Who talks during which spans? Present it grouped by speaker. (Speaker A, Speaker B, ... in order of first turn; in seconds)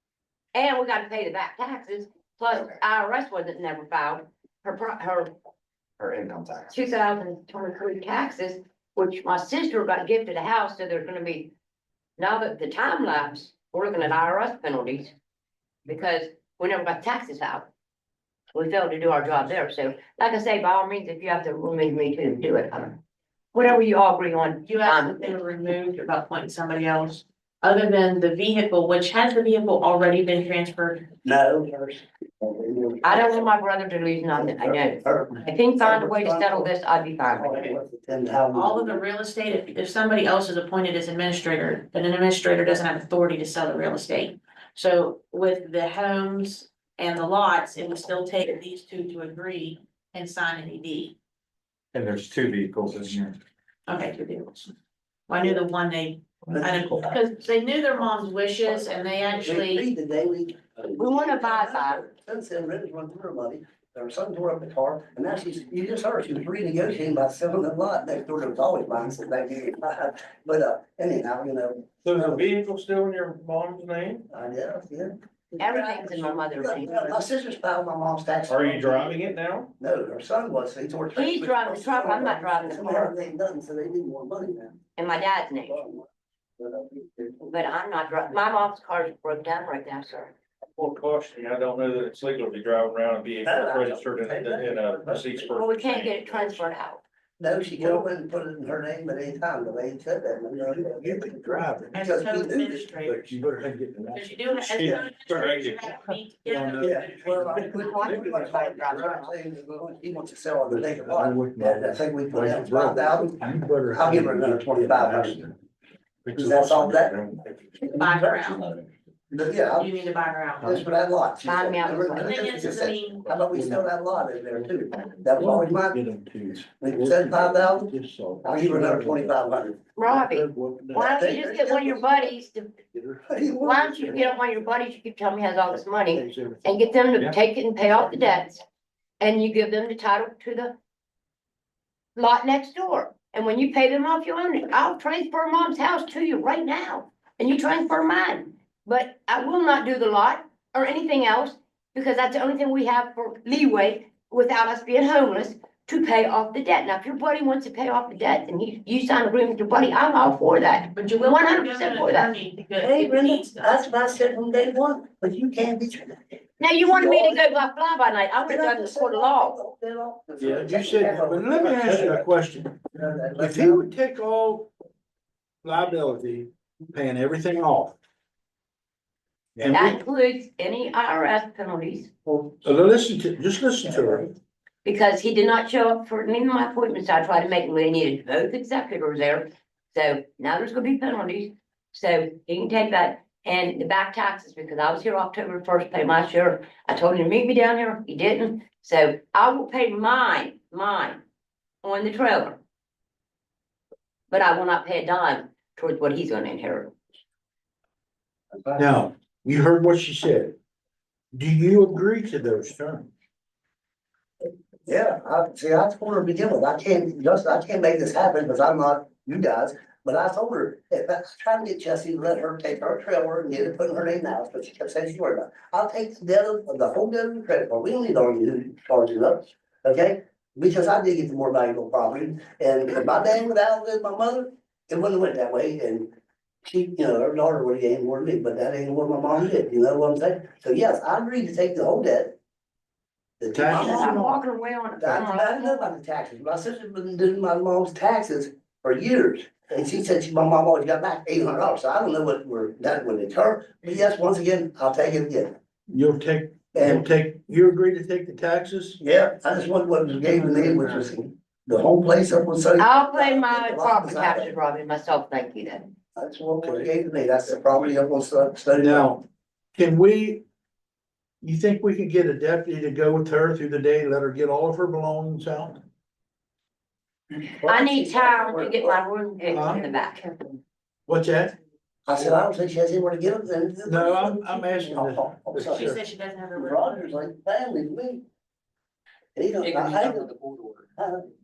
Speaker A: 0.5-5.3, 6.7-11.5, 12.2-15.2, 15.9-17.7, 18.5-23.0, 23.5-25.3, 33.0-37.7, 61.0-62.0, 75.6-77.2, 81.1-83.1, 85.0-85.8, 87.5-90.3, 95.5-97.0, 107.8-109.2, 121.4-122.3, 130.0-132.7, 133.6-138.6, 139.2-140.8, 142.2-162.3, 166.6-169.6, 179.7-182.1, 184.8-201.2, 201.8-202.6, 204.3-206.9, 243.7-246.0, 262.8-265.9, 277.7-280.3
Speaker B: 6.0-6.8, 51.9-53.3, 72.1-74.3, 78.5-79.7, 90.8-96.1
Speaker C: 24.6-31.1, 38.5-51.2, 53.9-54.7, 55.3-59.9, 101.9-103.3, 104.2-107.4, 118.0-118.6, 119.8-120.8, 122.2-123.2, 160.9-163.8, 285.6-287.0
Speaker D: 31.2-33.5, 34.3-36.7, 37.3-39.0, 56.6-57.2, 58.7-72.5, 74.3-79.2, 79.8-84.8, 85.7-86.1, 86.6-87.5, 93.5-95.7, 97.4-101.4, 101.9-102.9, 106.8-115.5, 116.3-117.2, 117.8-118.6, 119.3-120.0, 120.6-126.0, 126.8-127.9, 128.4-129.8, 131.1-132.3, 133.2-134.7, 162.8-167.6, 168.4-172.3, 172.8-173.9, 183.8-184.3, 208.6-208.9, 214.9-236.1, 236.7-242.4, 243.4-244.2, 245.0-255.6, 256.7-257.1, 259.0-264.5, 266.2-269.2, 277.6-279.0, 282.1-285.9, 286.6-288.2, 289.4-290.3, 291.0-291.2
Speaker E: 93.5-94.0, 105.3-105.8, 289.6-290.9
Speaker F: 97.8-98.0, 100.7-102.0, 103.0-105.4, 106.5-108.4, 110.7-115.5, 116.2-117.4, 123.2-123.9, 124.5-129.5, 130.0-131.2, 132.9-133.2, 136.1-136.6, 170.4-172.8, 173.4-174.7, 175.6-178.0, 179.6-180.0, 182.6-184.3, 208.8-210.6, 211.3-213.1, 243.5-244.4, 255.9-259.0, 266.6-266.9, 268.7-269.2, 269.8-270.4, 271.4-275.8, 279.5-279.8, 281.1-281.6, 283.9-286.0